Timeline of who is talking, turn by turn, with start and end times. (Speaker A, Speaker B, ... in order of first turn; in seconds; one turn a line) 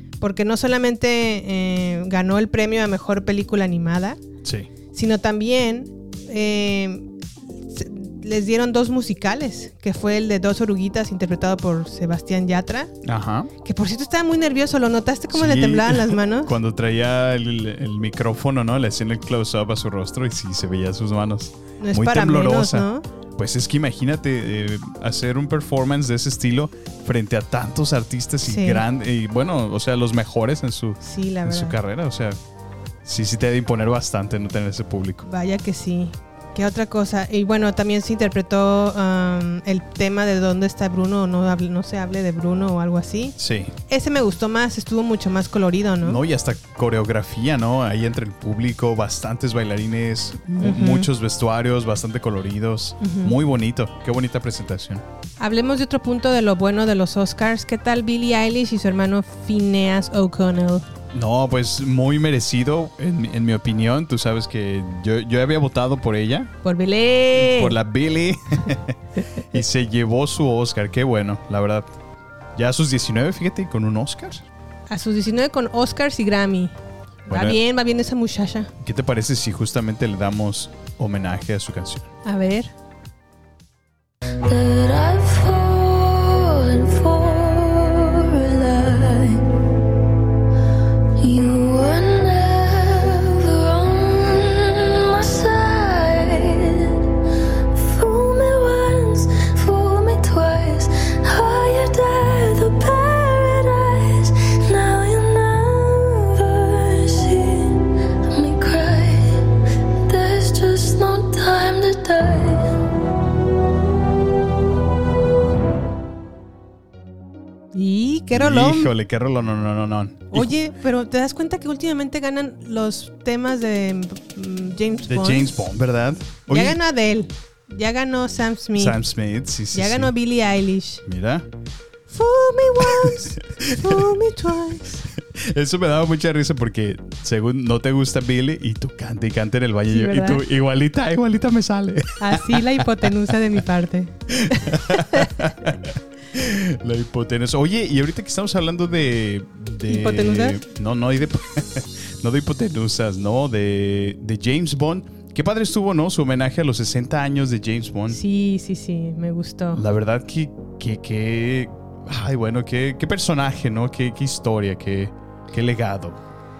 Speaker A: 0.2-4.2
Speaker B: 4.4-4.7
Speaker A: 4.9-7.1
Speaker A: 7.6-12.9
Speaker B: 13.0-13.5
Speaker A: 13.6-16.6
Speaker B: 15.3-32.4
Speaker A: 21.8-23.0
Speaker A: 28.4-28.8
Speaker A: 31.0-31.8
Speaker B: 33.0-35.2
Speaker A: 35.2-43.4
Speaker B: 43.4-43.7
Speaker A: 43.9-46.2
Speaker B: 46.0-55.0
Speaker A: 50.6-51.1
Speaker A: 53.0-53.4
Speaker A: 55.4-60.9
Speaker B: 61.1-66.5
Speaker A: 66.6-67.8
Speaker B: 67.3-71.9
Speaker B: 72.5-74.5
Speaker A: 74.9-76.7
Speaker A: 77.3-78.7
Speaker B: 77.3-77.6
Speaker B: 78.8-82.1
Speaker A: 82.2-82.7
Speaker C: 84.4-89.5
Speaker C: 91.2-97.1
Speaker C: 97.7-109.5
Speaker C: 110.0-112.8
Speaker A: 117.7-118.9
Speaker B: 118.3-120.5
Speaker A: 120.3-125.5
Speaker B: 125.1-126.8
Speaker A: 126.5-129.0
Speaker B: 128.8-130.1
Speaker A: 129.7-131.0
Speaker B: 131.0-131.5
Speaker A: 132.1-135.1
Speaker B: 132.8-134.1
Speaker B: 135.2-143.3
Speaker A: 139.9-140.4
Speaker A: 142.2-145.3
Speaker B: 144.3-158.2
Speaker A: 149.8-150.6
Speaker A: 158.1-159.8
Speaker B: 159.7-166.2